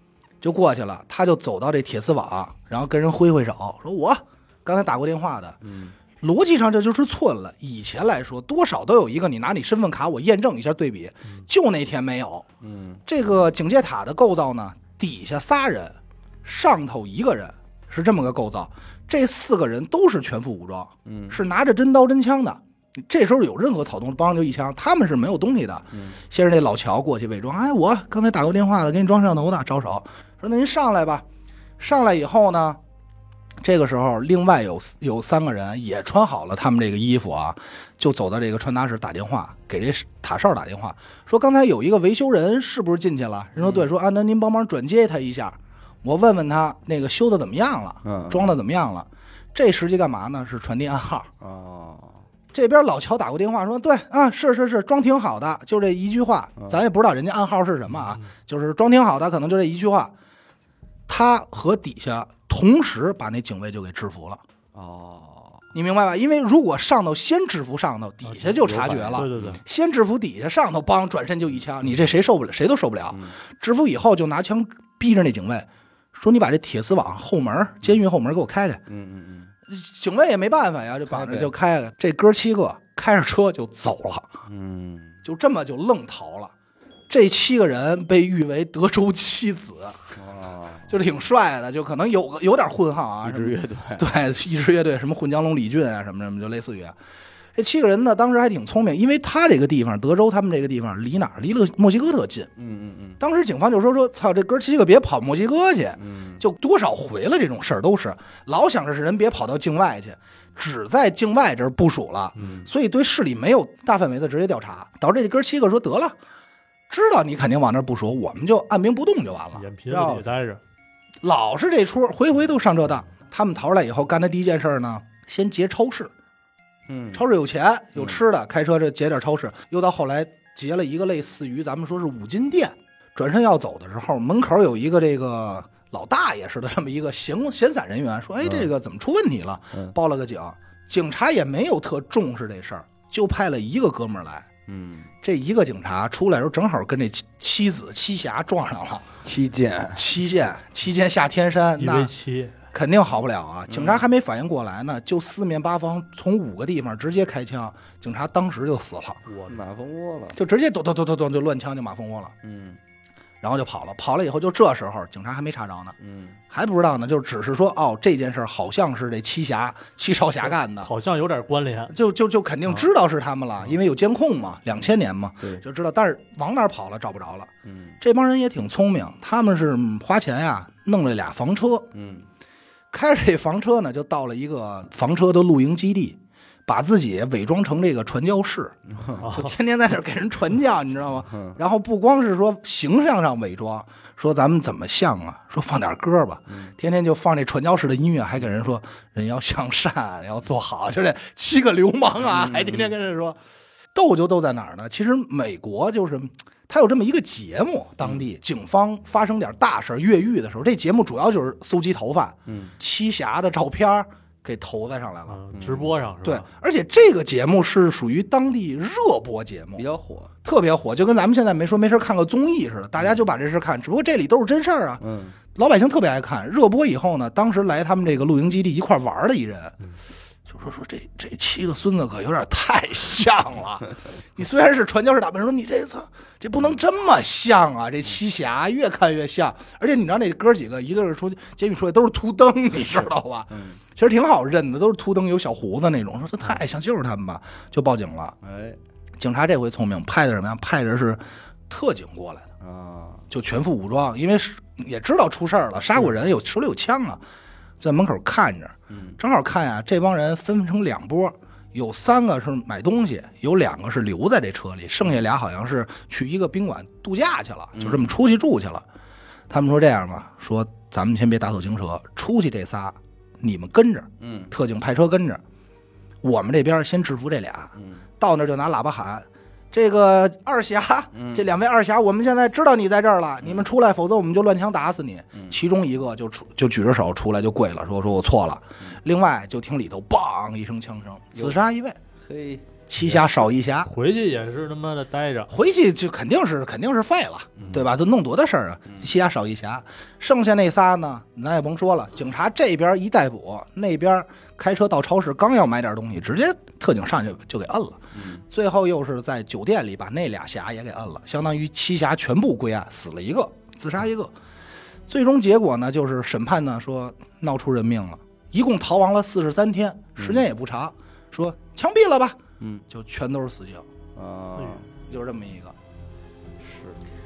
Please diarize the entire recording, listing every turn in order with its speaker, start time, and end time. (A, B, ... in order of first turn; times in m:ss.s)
0:00.4-0:05.6 A
0:05.6-0:06.0 B
0:06.2-0:12.5 A
0:12.6-0:13.0 B
0:13.1-0:31.2 A
0:21.0-0:21.4 B
0:25.9-0:26.2 B
0:31.8-0:32.8 A
0:33.6-0:51.3 A
0:43.6-0:43.9 B
0:48.0-0:48.5 B
0:51.4-0:52.2 B
0:52.5-1:00.1 A
1:01.1-1:04.4 A
1:04.8-1:05.6 B
1:05.7-1:18.8 A
1:08.3-1:09.6 C
1:08.8-1:09.6 B
1:18.9-1:19.5 B
1:19.7-1:24.3 A
1:21.1-1:21.5 B
1:24.5-1:25.2 B
1:25.2-1:26.5 A
1:27.1-1:30.1 A
1:30.2-1:30.9 B
1:30.9-1:37.0 A
1:33.2-1:34.1 B
1:37.6-1:42.5 A
1:42.6-1:43.2 B
1:43.2-1:56.2 A
1:46.0-1:46.4 B
1:52.4-1:52.7 B
1:56.9-2:00.2 A
1:59.6-2:00.6 C
2:01.2-2:06.1 A
2:06.9-2:07.2 B
2:07.1-2:24.5 A
2:08.0-2:08.2 B
2:18.4-2:18.7 B
2:24.7-2:25.1 B
2:25.2-2:29.1 A
2:29.2-2:30.0 B
2:30.0-2:32.1 A
2:31.8-2:32.6 C
2:32.7-2:39.2 A
2:33.7-2:34.0 B
2:39.3-2:39.6 C
2:39.5-2:40.4 B
2:40.4-2:42.3 A
2:42.4-2:42.8 B
2:43.4-2:46.0 A
2:46.0-2:46.4 B
2:46.5-2:50.9 A
2:50.8-2:51.9 C
2:51.9-3:01.9 A
2:57.6-2:58.0 B
3:01.9-3:02.3 B
3:02.9-3:23.4 A
3:08.9-3:09.3 B
3:09.2-3:09.5 C
3:11.3-3:11.6 B
3:22.3-3:22.9 B
3:23.9-3:35.4 A
3:32.5-3:32.8 B
3:35.3-3:36.5 C
3:35.5-3:35.9 B
3:36.2-3:39.8 A
3:39.8-3:40.3 B
3:40.4-3:45.0 A
3:45.0-3:45.4 B
3:45.6-3:49.8 A
3:50.5-4:08.4 A
4:02.9-4:03.8 B
4:08.4-4:08.8 B
4:09.2-4:12.5 A
4:12.6-4:13.2 B
4:13.3-4:17.2 A
4:17.8-4:28.8 A
4:18.9-4:19.2 B
4:27.8-4:28.1 B
4:29.5-4:35.4 A
4:34.2-4:34.5 B
4:36.2-4:52.0 A
4:37.8-4:38.0 B
4:41.1-4:41.4 B
4:52.2-4:53.4 B
4:52.9-4:53.9 A
4:53.8-4:55.5 C
4:55.5-5:14.3 A
4:57.6-4:57.9 B
5:08.1-5:08.4 B
5:15.1-5:23.9 A
5:20.2-5:20.4 B
5:24.2-5:24.9 B
5:25.1-5:25.8 A
5:26.6-5:27.0 B